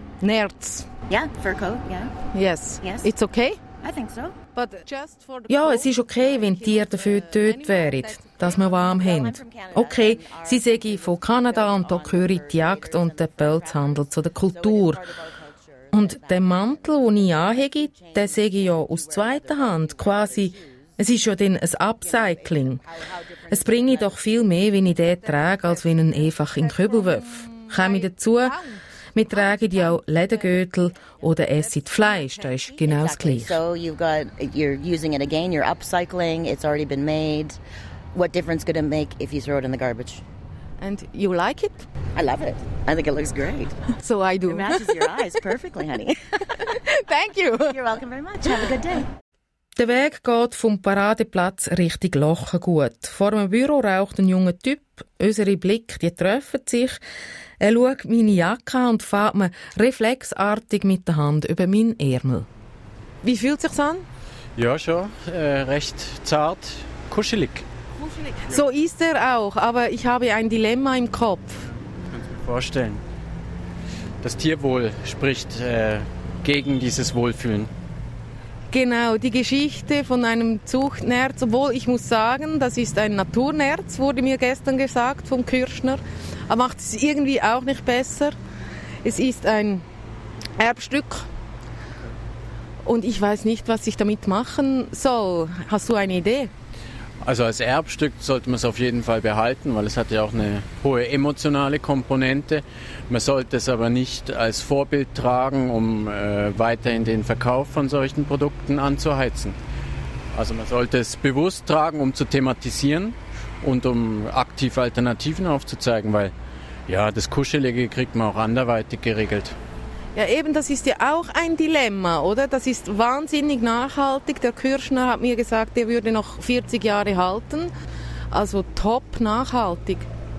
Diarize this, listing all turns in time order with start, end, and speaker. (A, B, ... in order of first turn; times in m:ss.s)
0:00.2-0:00.9 A
0:01.1-0:02.1 B
0:02.3-0:03.6 A
0:02.8-0:03.1 B
0:03.8-0:04.4 B
0:04.6-0:15.0 A
0:08.4-0:27.2 B
0:15.9-0:22.8 A
0:23.5-0:28.6 A
0:29.1-0:33.6 A
0:29.3-0:37.6 B
0:38.1-0:40.2 B
0:40.8-0:41.9 A
0:42.1-0:43.8 B
0:44.0-0:44.9 A
0:44.4-0:46.7 B
0:46.9-0:47.7 A
0:47.5-0:49.1 B
0:49.8-0:57.0 A
0:57.6-1:02.5 A
1:03.2-1:04.0 A
1:04.6-1:07.6 C
1:08.5-1:11.6 A
1:12.1-1:13.0 C
1:14.2-1:17.7 C
1:18.7-1:28.4 A
1:29.0-1:29.8 A
1:30.6-1:31.3 A
1:32.8-1:36.5 A
1:37.2-1:49.5 C
1:50.3-1:56.3 C
1:56.9-1:59.5 C
2:00.1-2:07.7 A
2:08.3-2:10.1 A